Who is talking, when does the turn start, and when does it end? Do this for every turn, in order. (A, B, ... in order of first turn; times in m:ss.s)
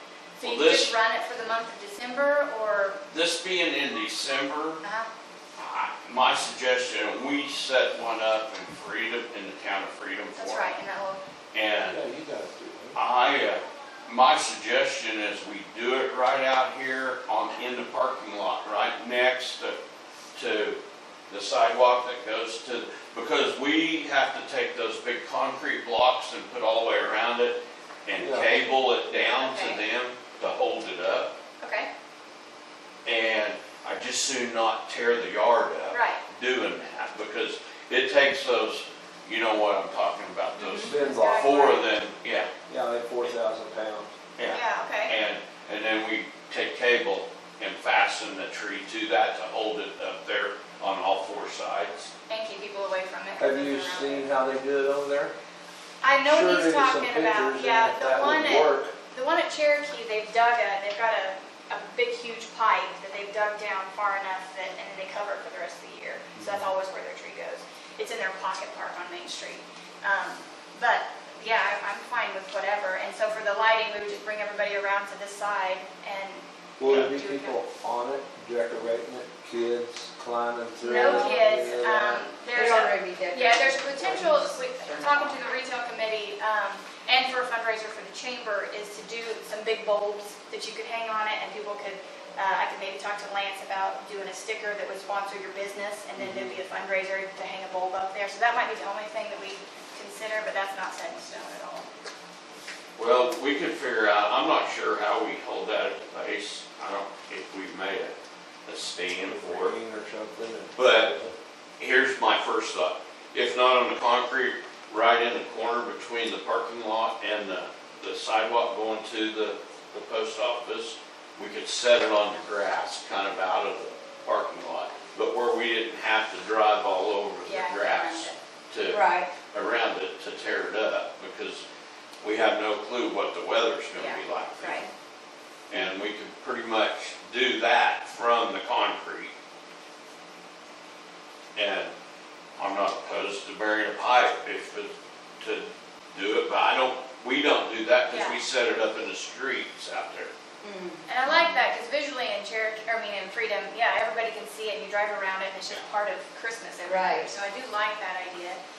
0:00.4-0:03.0 A
0:00.4-0:01.0 B
0:03.1-0:04.8 B
0:04.8-0:05.1 A
0:05.6-0:10.8 B
0:10.4-0:11.2 A
0:11.5-0:12.0 B
0:11.9-0:13.0 C
0:13.0-0:19.8 B
0:20.4-0:20.8 B
0:21.3-0:31.3 B
0:28.2-0:28.5 C
0:29.2-0:29.8 A
0:31.6-0:31.9 A
0:33.0-0:42.5 B
0:35.9-0:36.2 A
0:40.6-0:40.9 D
0:40.8-0:41.7 C
0:40.9-0:41.9 A
0:42.7-0:44.1 C
0:44.4-0:52.1 B
0:44.5-0:45.2 A
0:52.3-0:54.3 A
0:53.4-0:55.3 C
0:56.0-1:17.6 A
0:56.3-0:58.9 C
1:16.8-1:22.2 C
1:20.8-1:41.9 A
1:21.0-1:21.4 D
1:22.5-1:25.4 D
1:43.0-1:48.1 B
1:48.7-1:49.7 B
1:49.2-1:51.3 C
1:50.8-1:51.1 B
1:51.8-2:11.6 B
2:07.4-2:08.4 A
2:08.9-2:09.3 D
2:12.2-2:14.9 B
2:14.0-2:14.2 A
2:14.6-2:14.9 D
2:15.7-2:19.3 B
2:21.6-2:21.9 B
2:22.6-2:30.3 B
2:28.1-2:28.4 A
2:30.6-2:31.5 D
2:31.1-2:38.6 A
2:36.9-2:37.3 D